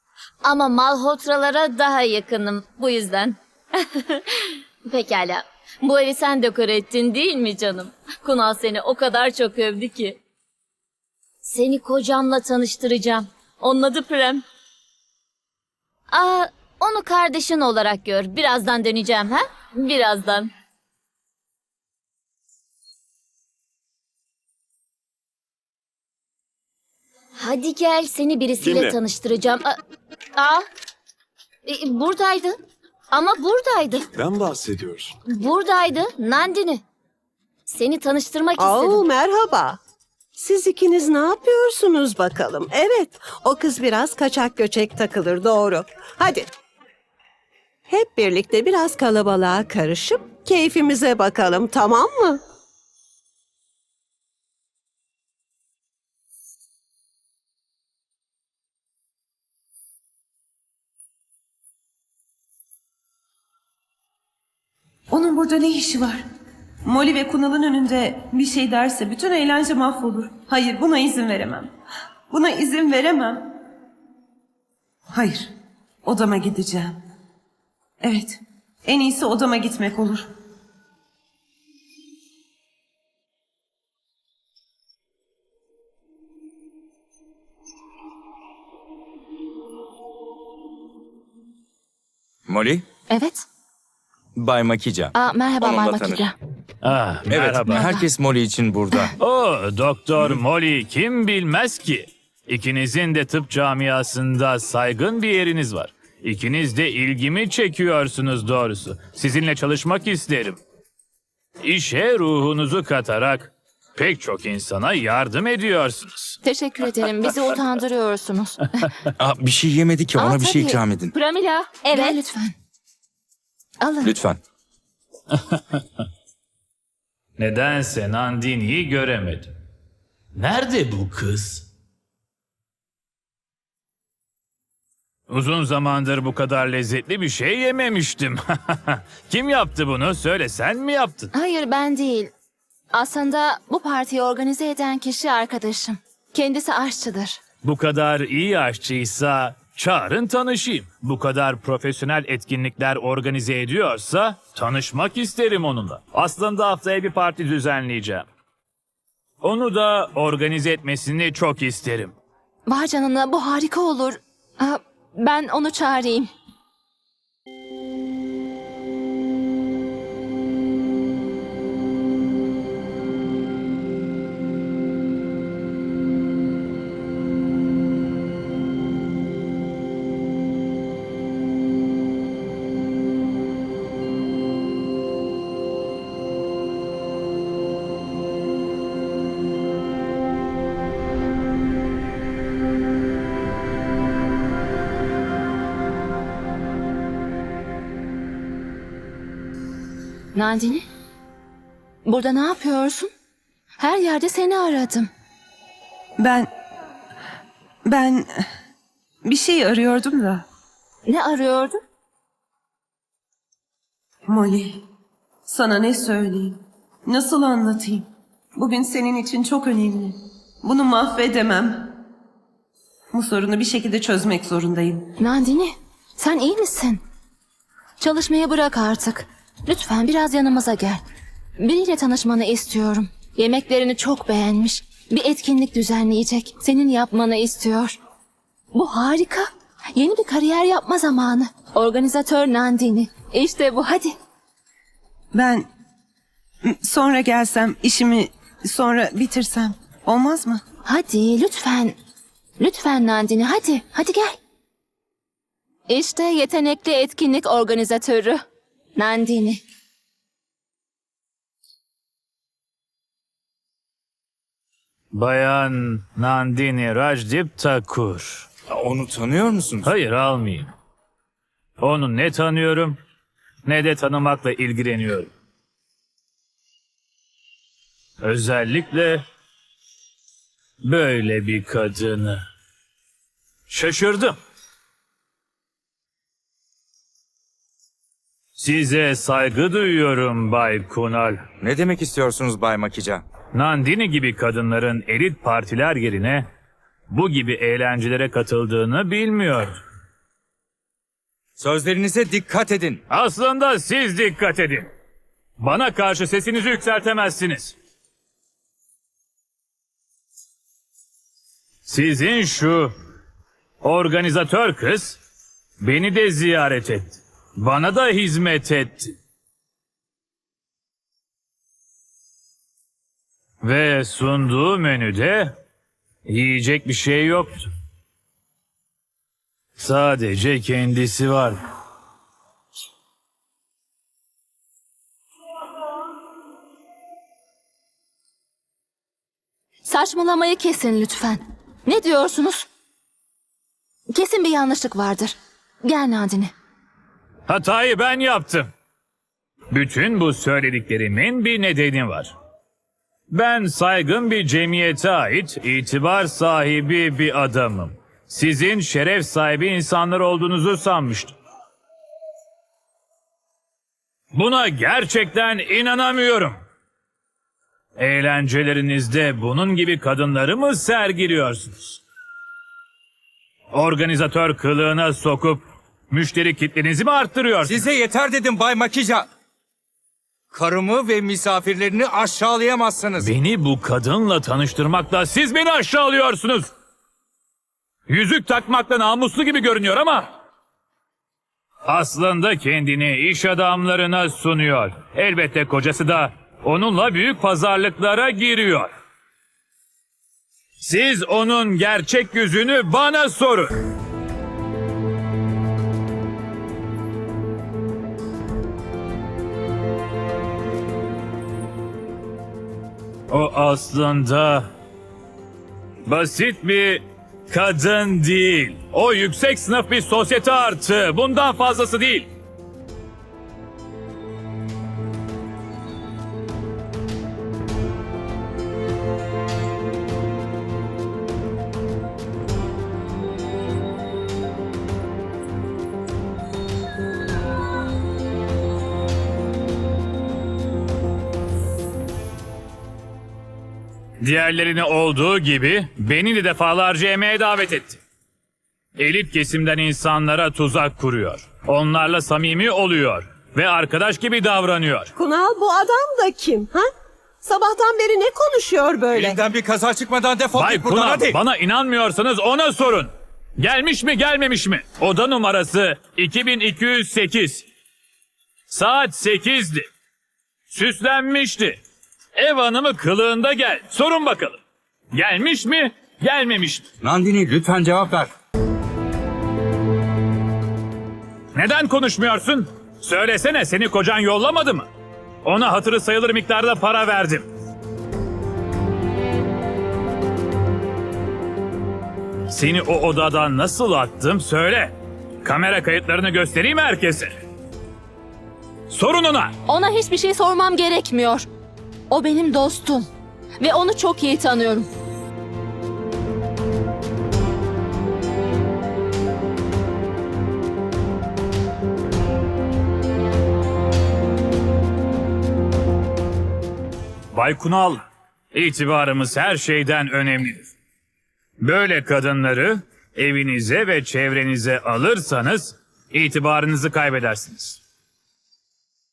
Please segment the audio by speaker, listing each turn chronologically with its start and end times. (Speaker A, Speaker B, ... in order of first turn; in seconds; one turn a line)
Speaker A: 0.4-3.3
Speaker A: 4.9-10.2
Speaker A: 11.4-14.4
Speaker A: 16.1-20.5
Speaker A: 27.4-29.7
Speaker A: 31.7-32.5
Speaker A: 33.1-34.0
Speaker A: 35.3-36.8
Speaker A: 37.7-39.1
Speaker B: 38.6-39.8
Speaker B: 40.4-46.5
Speaker B: 47.9-52.4
Speaker C: 65.1-66.2
Speaker C: 66.8-71.7
Speaker C: 72.3-73.5
Speaker C: 75.1-75.5
Speaker C: 76.0-77.0
Speaker C: 78.0-80.3
Speaker D: 92.5-92.8
Speaker E: 93.1-93.4
Speaker D: 94.3-96.3
Speaker E: 95.1-96.3
Speaker F: 96.8-97.8
Speaker D: 97.3-99.1
Speaker E: 97.7-98.0
Speaker F: 99.2-110.6
Speaker F: 111.6-116.4
Speaker E: 116.4-118.9
Speaker D: 119.2-121.1
Speaker E: 120.1-122.5
Speaker E: 123.8-124.1
Speaker D: 124.0-124.4
Speaker F: 127.4-129.5
Speaker F: 130.3-131.7
Speaker F: 135.3-141.3
Speaker E: 141.3-142.3
Speaker E: 142.9-147.4
Speaker F: 147.6-158.3
Speaker F: 159.4-162.1
Speaker E: 162.7-166.3
Speaker E: 200.3-200.8
Speaker E: 202.1-203.1
Speaker E: 203.8-205.1
Speaker C: 206.2-206.5
Speaker C: 207.8-208.4
Speaker C: 209.2-210.4
Speaker E: 211.1-211.8
Speaker C: 214.3-214.8
Speaker C: 215.5-221.9
Speaker C: 223.1-225.1
Speaker E: 225.2-227.0
Speaker E: 228.0-231.0
Speaker E: 231.6-238.0
Speaker E: 238.7-244.1
Speaker C: 245.3-245.6
Speaker C: 246.6-250.6
Speaker E: 250.8-251.9
Speaker E: 252.6-254.4
Speaker E: 255.9-258.4
Speaker E: 258.9-259.6
Speaker F: 265.1-268.5
Speaker D: 268.7-269.9
Speaker F: 269.8-270.7
Speaker F: 271.8-273.0
Speaker F: 273.6-275.3
Speaker F: 278.2-279.2
Speaker F: 280.8-282.4
Speaker F: 283.7-284.4
Speaker F: 288.6-291.4
Speaker D: 291.6-293.2
Speaker F: 293.5-296.4
Speaker F: 297.1-299.8
Speaker D: 301.6-303.0
Speaker F: 303.1-304.9
Speaker F: 305.6-307.7
Speaker F: 311.9-312.9
Speaker F: 313.8-315.2
Speaker F: 315.8-319.1
Speaker F: 323.6-325.5
Speaker F: 326.2-327.6
Speaker F: 329.8-331.6
Speaker E: 339.8-342.6
Speaker E: 344.1-346.5
Speaker F: 347.5-348.7
Speaker F: 349.7-352.3
Speaker F: 353.3-361.3
Speaker F: 364.3-366.6
Speaker F: 368.0-372.0
Speaker F: 373.7-377.8
Speaker D: 377.6-379.2
Speaker D: 380.5-383.3
Speaker F: 383.2-386.7
Speaker F: 388.1-390.3
Speaker F: 391.8-398.9
Speaker F: 400.8-403.7
Speaker F: 413.3-414.7
Speaker F: 416.1-422.3
Speaker F: 444.2-448.0
Speaker F: 449.0-455.1
Speaker B: 455.1-456.9
Speaker B: 457.4-459.4
Speaker D: 459.1-461.4
Speaker F: 460.5-467.6
Speaker F: 468.7-469.8
Speaker F: 470.7-471.8
Speaker F: 472.4-474.6
Speaker F: 475.1-476.8
Speaker D: 477.0-478.3
Speaker F: 481.5-484.9
Speaker F: 485.4-487.5
Speaker F: 492.5-497.3
Speaker F: 498.9-499.6
Speaker E: 499.7-501.5
Speaker E: 502.1-503.1
Speaker E: 503.6-504.9
Speaker F: 517.3-518.0
Speaker F: 518.5-520.7
Speaker F: 521.6-527.8